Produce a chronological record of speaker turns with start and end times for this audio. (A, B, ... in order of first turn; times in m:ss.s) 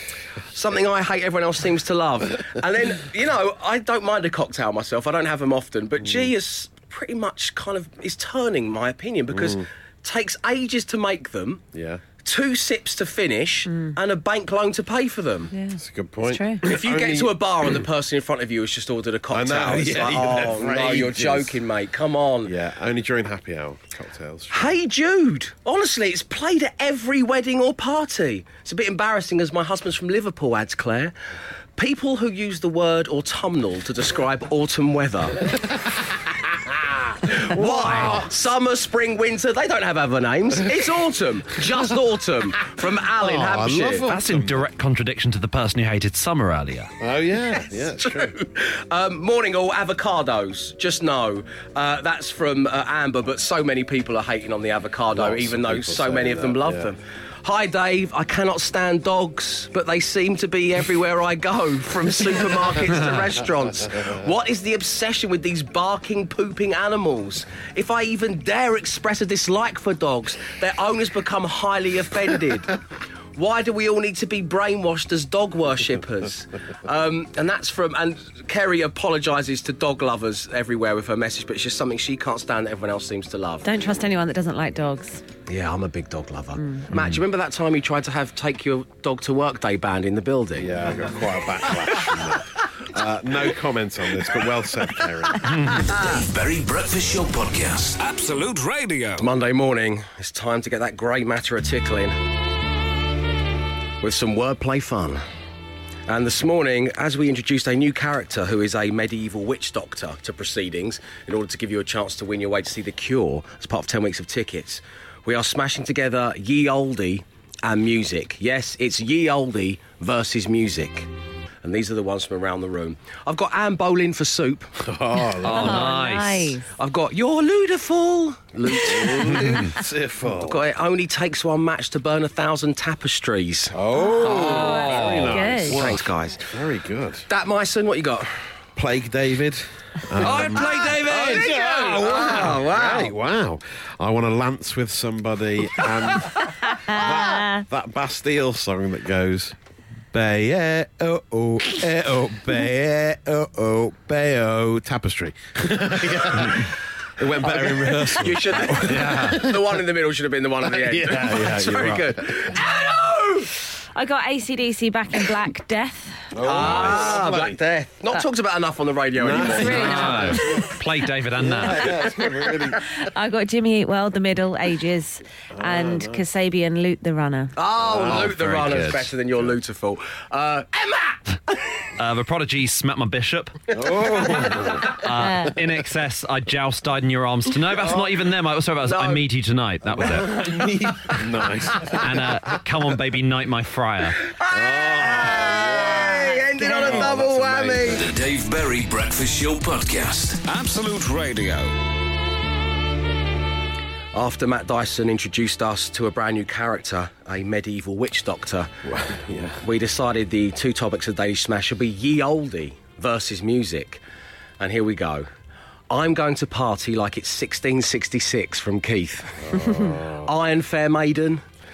0:00.5-0:11.6 A
0:06.0-0:06.3 B
0:09.3-0:09.7 B
0:11.7-0:12.0 B
0:12.2-0:15.5 A
0:15.5-0:16.6 C
0:15.8-0:17.8 B
0:16.6-0:22.5 A
0:19.3-0:21.6 B
0:22.4-0:24.8 B
0:24.5-0:31.1 A
0:31.8-0:35.4 A
0:35.6-0:38.3 B
0:37.3-0:44.1 A
0:43.1-0:44.7 B
0:44.1-0:46.9 D
0:47.0-0:48.3 B
0:47.5-1:12.8 A
0:55.1-0:56.9 B
1:13.4-1:23.7 A
1:23.6-1:25.2 C
1:25.5-1:30.7 A
1:26.9-1:27.2 B
1:30.6-1:35.8 B
1:35.6-1:38.0 E
1:38.0-1:39.3 F
1:39.2-1:42.2 A
1:44.0-1:45.2 A
1:46.1-2:01.1 A
2:01.6-2:04.7 A
2:04.8-2:05.9 B
2:05.5-2:06.6 D
2:05.5-2:06.7 C
2:06.7-2:09.7 A
2:08.7-2:10.6 B
2:10.3-2:15.0 A
2:13.7-2:17.3 B
2:13.9-2:15.8 C
2:14.6-2:15.5 D
2:15.6-2:16.4 A
2:17.3-2:18.6 A
2:18.8-2:29.6 B
2:20.2-2:23.1 A
2:26.7-2:27.6 C
2:30.1-2:39.8 B
2:37.4-2:43.5 A
2:40.7-2:42.2 B
2:44.0-2:46.3 C
2:46.3-2:47.6 B
2:46.4-2:50.4 A
2:46.7-2:47.0 D
2:49.2-2:50.7 B
2:49.3-2:50.7 C
2:49.7-2:51.9 D
2:51.4-2:52.9 B
2:53.0-2:57.5 C
2:55.5-2:56.2 B
2:57.6-3:01.8 A
2:57.8-2:58.9 B
2:58.1-2:59.1 D
3:02.0-3:03.6 D
3:03.7-3:04.9 B
3:04.8-3:10.3 D
3:05.1-3:05.5 C
3:07.8-3:08.0 A
3:08.8-3:09.3 A
3:10.0-3:10.6 A
3:10.1-3:12.5 B
3:12.0-3:14.1 D
3:14.3-3:18.0 A
3:14.5-3:18.1 B
3:16.6-3:17.0 C
3:17.9-3:20.4 E
3:20.4-3:21.8 F
3:24.1-3:28.7 A
3:28.9-3:29.6 B
3:29.5-3:34.0 A
3:34.6-3:35.3 A
3:35.9-3:41.4 A
3:39.4-3:40.4 B